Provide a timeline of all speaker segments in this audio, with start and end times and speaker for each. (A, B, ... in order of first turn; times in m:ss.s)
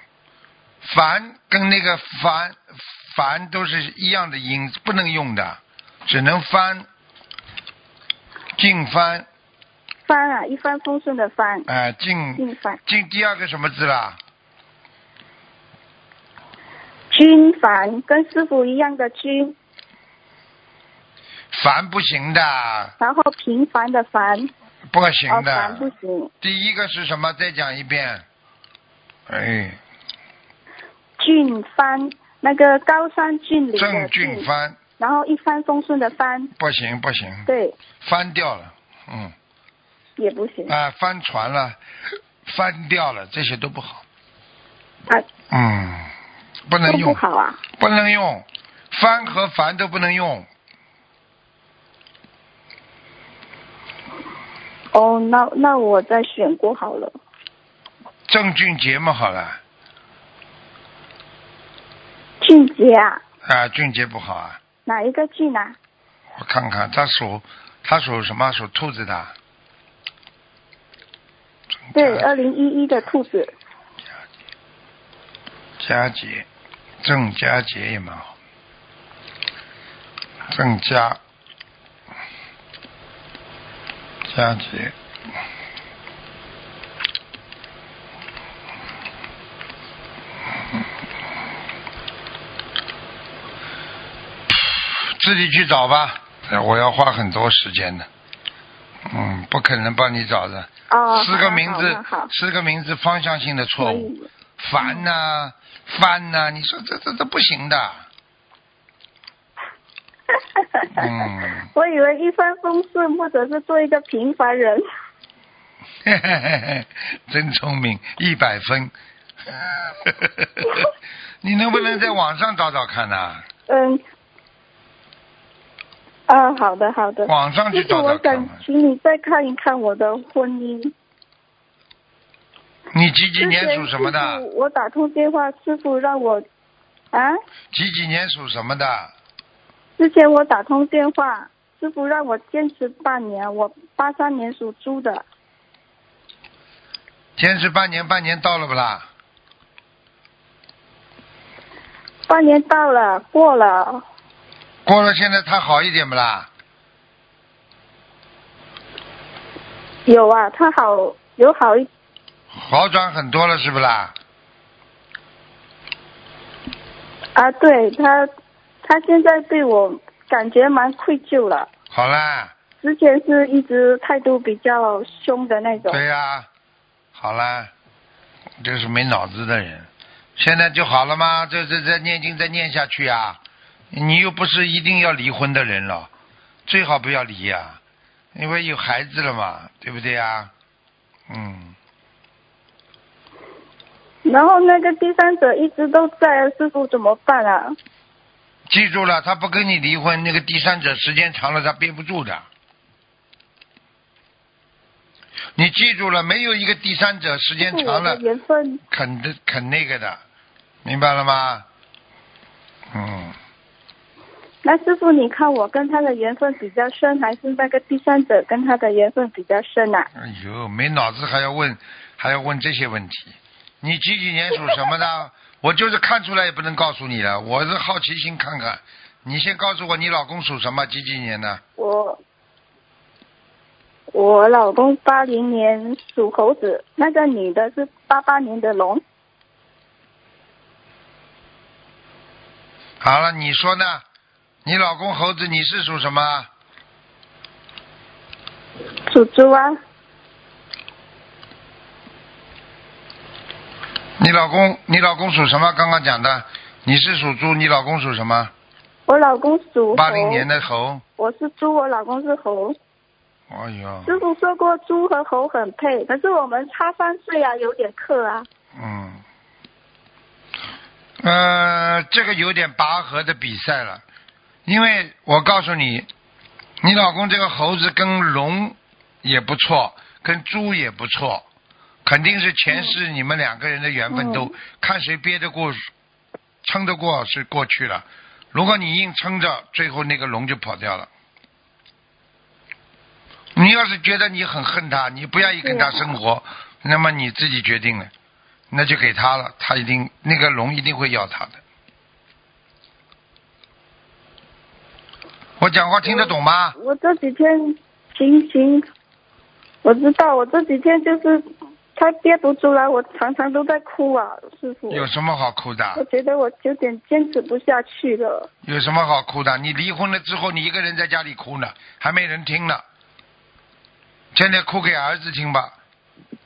0:00.8-0:06.9 A
0:08.6-0:09.3 A
0:10.1-0:11.7 B
0:11.7-0:14.2 A
0:12.4-0:12.8 B
0:17.1-0:19.6 B
0:21.5-0:22.9 A
0:23.0-0:24.5 B
0:24.9-0:25.9 A
0:25.3-0:26.3 B
0:26.4-0:28.2 A
0:29.3-0:29.8 A
0:31.2-0:34.5 B
0:33.8-0:34.8 A
0:35.0-0:36.5 B
0:36.6-0:37.5 A
0:37.5-0:37.8 B
0:38.0-0:39.4 A
0:40.2-0:40.8 B
0:40.7-0:41.8 A
0:42.4-0:44.0 A
0:45.5-0:46.1 A
0:46.7-0:47.2 A
0:46.9-0:47.6 B
0:47.8-0:50.5 A
0:54.9-0:57.1 B
0:58.3-0:59.6 A
1:02.4-1:03.2 B
1:03.4-1:04.6 A
1:04.9-1:05.8 B
1:06.4-1:09.4 A
1:11.9-1:12.3 A
1:11.9-1:13.5 B
1:15.8-1:16.5 A
1:17.0-1:18.3 A
1:20.5-1:21.2 A
1:24.3-1:25.0 A
1:34.5-1:38.1 A
1:39.1-1:48.1 A
1:40.9-1:42.3 B
1:43.8-1:44.3 B
1:50.8-1:51.1 B
1:51.0-1:51.7 A
1:51.7-1:54.9 B
1:56.0-1:58.9 A
1:59.5-2:00.9 A
2:01.4-2:03.5 A
2:03.7-2:04.0 B
2:06.3-2:10.9 B
2:07.3-2:08.6 A
2:12.9-2:14.4 A
2:13.4-2:16.4 B
2:17.1-2:17.4 B
2:17.7-2:19.1 A
2:20.0-2:25.2 B
2:27.4-2:29.1 A
2:32.3-2:34.0 B
2:34.8-2:36.5 A
2:40.1-2:41.9 B
2:42.5-2:44.1 A
2:47.4-2:48.3 B
2:48.8-2:51.7 B
2:51.9-2:52.5 A
2:52.8-2:56.0 B
2:55.9-2:56.5 A
2:57.1-2:57.7 A
2:58.6-3:03.4 A
3:03.9-3:06.1 A
3:06.7-3:07.8 A
3:08.4-3:10.5 A
3:11.3-3:11.8 A
3:14.2-3:17.8 B
3:18.7-3:22.5 A
3:25.6-3:28.2 A
3:27.6-3:28.8 B
3:28.9-3:30.2 A
3:30.8-3:31.7 A
3:32.9-3:33.4 A
3:34.6-3:40.1 B
3:40.2-3:51.6 A
3:51.8-3:52.2 B
3:54.1-3:59.0 B
4:03.0-4:04.0 A
4:04.6-4:06.5 A
4:09.1-4:09.8 B
4:14.2-4:18.5 A
4:19.1-4:20.5 B
4:19.9-4:21.0 A
4:21.2-4:22.8 B
4:23.5-4:24.2 A
4:24.1-4:28.5 B
4:28.8-4:29.2 A
4:31.2-4:34.0 A
4:34.7-4:36.1 A
4:36.8-4:41.4 A
4:42.0-4:45.9 A
4:44.1-4:44.5 B
4:46.6-4:51.1 A
4:53.6-4:58.1 A
4:55.5-4:56.0 B
4:58.7-5:01.6 A
5:05.6-5:06.8 A
5:06.1-5:08.9 B
5:09.8-5:15.1 B
5:14.9-5:16.0 A
5:16.0-5:18.5 B
5:18.6-5:22.8 A
5:24.3-5:25.8 A